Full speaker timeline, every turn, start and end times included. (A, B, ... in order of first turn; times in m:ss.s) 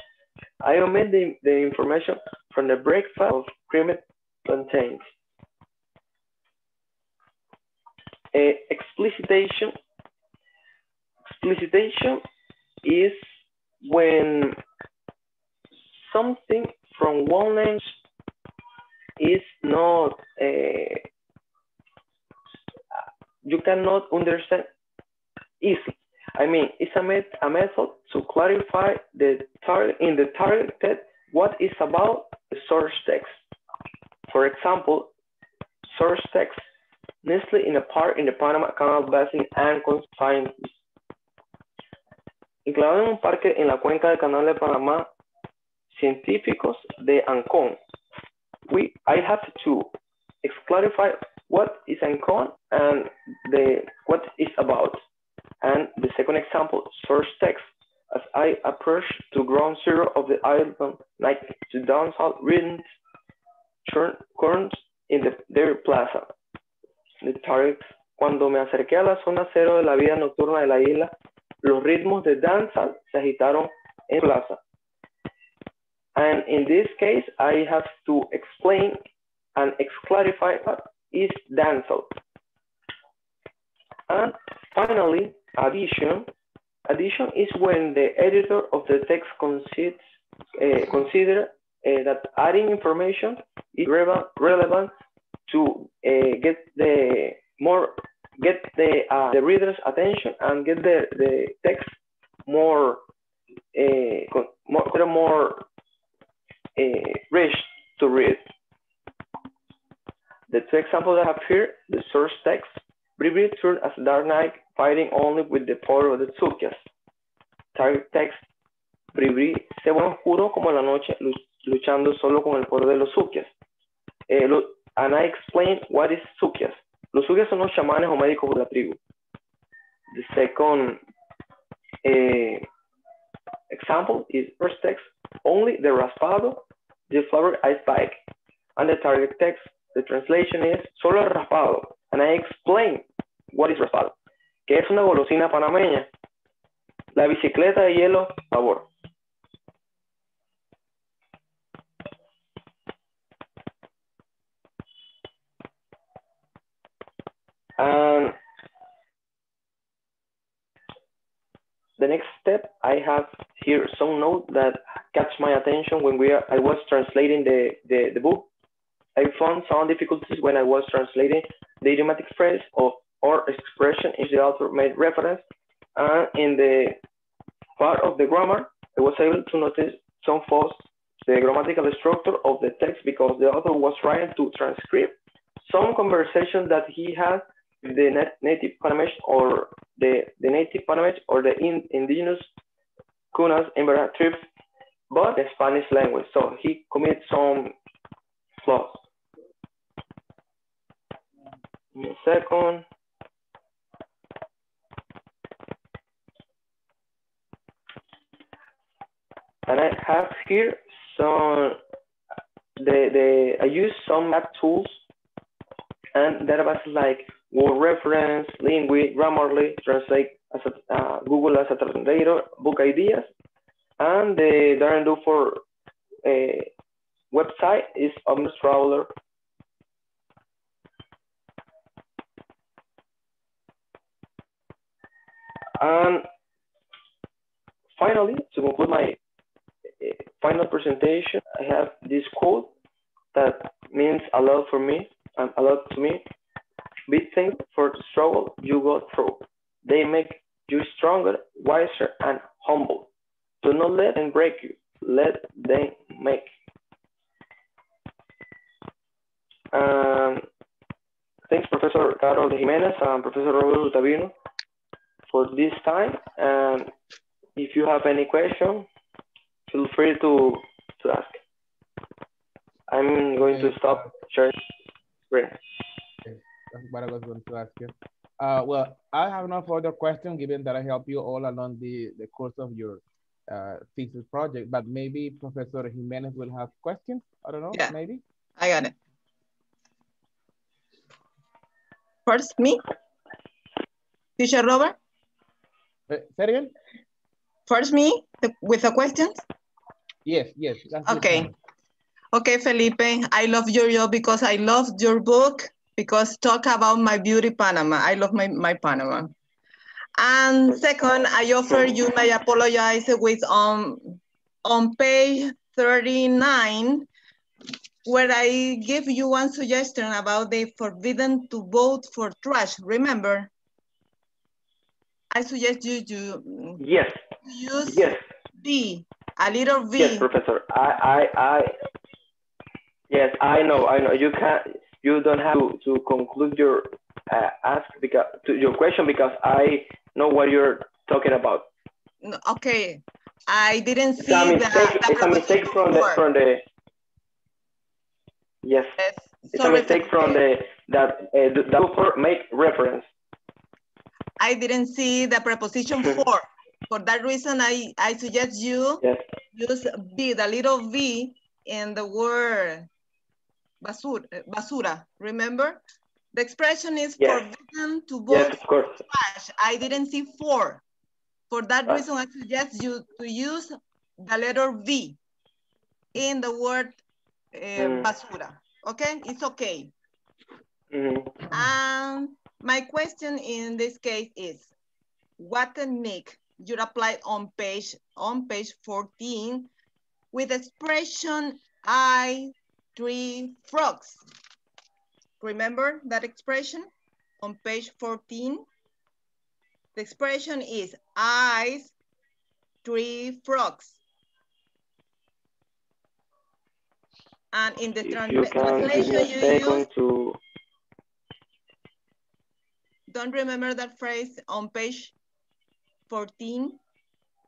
0:00.6-0:05.0 A
0:08.3-0:09.7 A
0:11.2-0:12.2 A
0:12.8-0:13.2 A
0:13.8-0:14.6 A
0:15.9-0:17.9 A
0:19.2-0:21.0 A
0:23.4-0:24.7 A
0:25.6-0:33.4 A
0:34.3-0:35.1 A
0:35.9-0:36.6 A
0:37.2-0:40.8 A
0:42.6-0:45.1 A
0:45.9-0:47.8 A
0:48.7-0:49.9 A
0:50.4-0:55.0 A
0:55.6-1:02.8 A
1:03.8-1:06.3 A
1:07.2-1:11.1 A
1:11.6-1:14.6 A
1:16.2-1:19.0 A
1:19.6-1:22.1 A
1:24.1-1:26.3 A
1:26.9-1:30.0 A
1:30.6-1:34.9 A
1:35.5-1:41.9 A
1:42.5-1:43.0 A
1:43.7-1:45.6 A
1:46.8-1:48.4 A
1:50.5-1:56.8 A
1:57.7-1:58.4 A
1:59.1-2:03.5 A
2:04.3-2:09.0 A
2:10.1-2:11.0 A
2:12.0-2:12.6 A
2:13.7-2:18.2 A
2:18.8-2:24.1 A
2:24.7-2:26.1 A
2:27.1-2:28.9 A
2:37.8-2:38.4 A
2:42.0-2:48.5 A
2:49.2-2:55.4 A
2:56.0-2:57.0 A
2:57.8-3:12.5 A
3:13.3-3:14.4 A
3:15.1-3:17.7 A
3:18.6-3:19.0 A
3:21.9-3:22.8 A
3:29.6-3:31.8 A
3:32.8-3:35.0 A
3:36.1-3:43.3 A
3:44.0-3:45.6 A
3:46.2-3:46.7 A
3:47.3-3:49.1 A
3:55.8-3:56.2 A
3:58.0-3:59.2 A
4:00.0-4:02.7 A
4:03.3-4:06.2 A
4:07.1-4:13.1 A
4:13.6-4:16.5 A
4:19.7-4:20.4 A
4:21.5-4:24.3 A
4:25.3-4:26.9 A
4:27.6-4:28.9 A
4:29.7-4:31.4 A
4:32.9-4:34.6 A
4:33.4-4:33.8 B
4:35.3-4:35.6 A
4:36.2-4:48.2 B
4:48.6-4:48.9 C
4:52.2-4:52.8 C
4:54.4-4:55.0 C
4:56.1-4:56.7 B
4:57.7-4:59.4 C
5:00.2-5:01.5 B
5:01.0-5:01.5 C
5:02.3-5:09.3 C
5:10.2-5:17.1 C
5:18.0-5:23.5 C
5:25.3-5:26.8 C
5:26.8-5:27.2 A
5:27.4-5:30.3 C
5:27.8-5:28.2 A
5:30.0-5:31.7 A
5:33.1-5:41.7 A
5:42.2-5:46.2 C
5:44.2-5:46.6 A
5:48.6-5:48.9 A
5:49.0-5:50.4 C
5:49.5-5:53.1 A
5:54.4-5:59.0 C
5:59.5-6:02.9 C
6:03.8-6:05.8 C
6:06.3-6:10.8 C
6:07.2-6:07.4 A
6:08.3-6:09.0 A
6:11.5-6:15.2 C
6:16.1-6:17.0 C
6:17.5-6:19.9 C
6:17.8-6:18.1 A
6:20.9-6:21.4 A
6:21.5-6:24.7 C
6:25.4-6:29.7 C
6:30.3-6:34.2 C
6:35.4-6:38.6 C
6:39.9-6:41.9 C
6:42.8-6:44.0 C
6:47.5-6:49.8 C
6:48.0-6:50.4 A
6:53.1-6:55.1 C
6:56.1-6:56.8 C